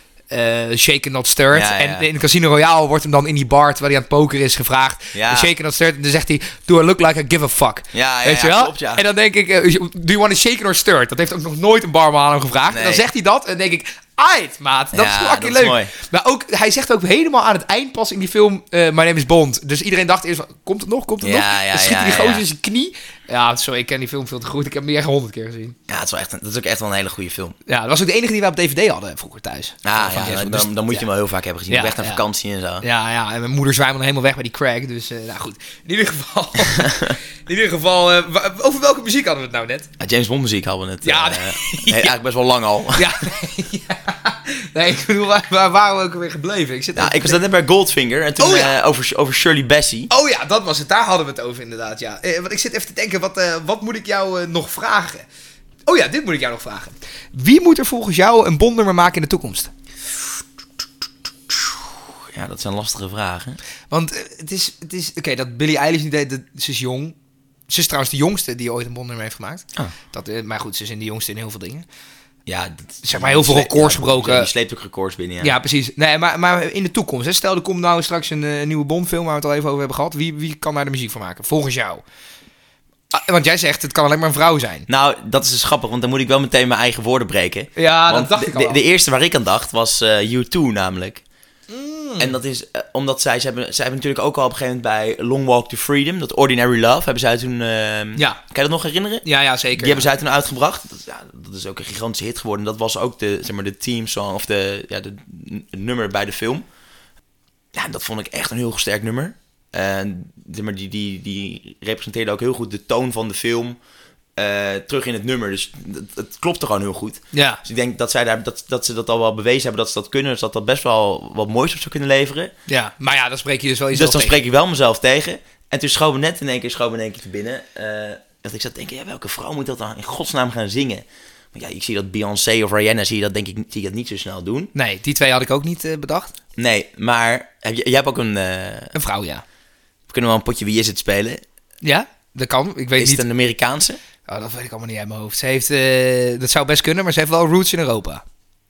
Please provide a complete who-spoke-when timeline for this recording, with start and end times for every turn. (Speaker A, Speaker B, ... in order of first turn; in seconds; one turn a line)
Speaker A: 0.3-25.8
Speaker B: 1.5-2.1
Speaker B: 5.1-5.5
Speaker B: 7.9-9.0
Speaker B: 12.7-13.1
Speaker B: 14.9-15.9
Speaker B: 21.2-22.4
Speaker B: 25.9-27.6
Speaker A: 27.6-31.1
Speaker B: 29.8-32.8
Speaker A: 31.7-32.2
Speaker A: 32.8-39.9
Speaker B: 36.7-37.1
Speaker B: 40.0-43.2
Speaker A: 41.0-42.1
Speaker A: 42.9-47.4
Speaker B: 47.0-50.1
Speaker A: 48.4-48.8
Speaker A: 50.1-55.2
Speaker A: 55.9-59.7
Speaker B: 61.5-63.6
Speaker A: 63.9-67.2
Speaker A: 67.7-71.8
Speaker B: 72.5-75.6
Speaker A: 73.0-74.5
Speaker A: 75.4-82.0
Speaker A: 83.1-84.8
Speaker B: 84.9-91.2
Speaker A: 87.8-88.8
Speaker A: 91.7-92.3
Speaker B: 92.2-106.7
Speaker A: 99.2-100.1
Speaker B: 107.7-113.8
Speaker B: 114.4-122.5
Speaker A: 117.3-117.6
Speaker A: 122.7-124.4
Speaker B: 123.9-134.7
Speaker A: 134.7-136.3
Speaker B: 136.6-138.9
Speaker A: 138.9-139.4
Speaker B: 140.1-141.4
Speaker A: 141.8-143.2
Speaker B: 143.0-144.0
Speaker A: 144.3-148.2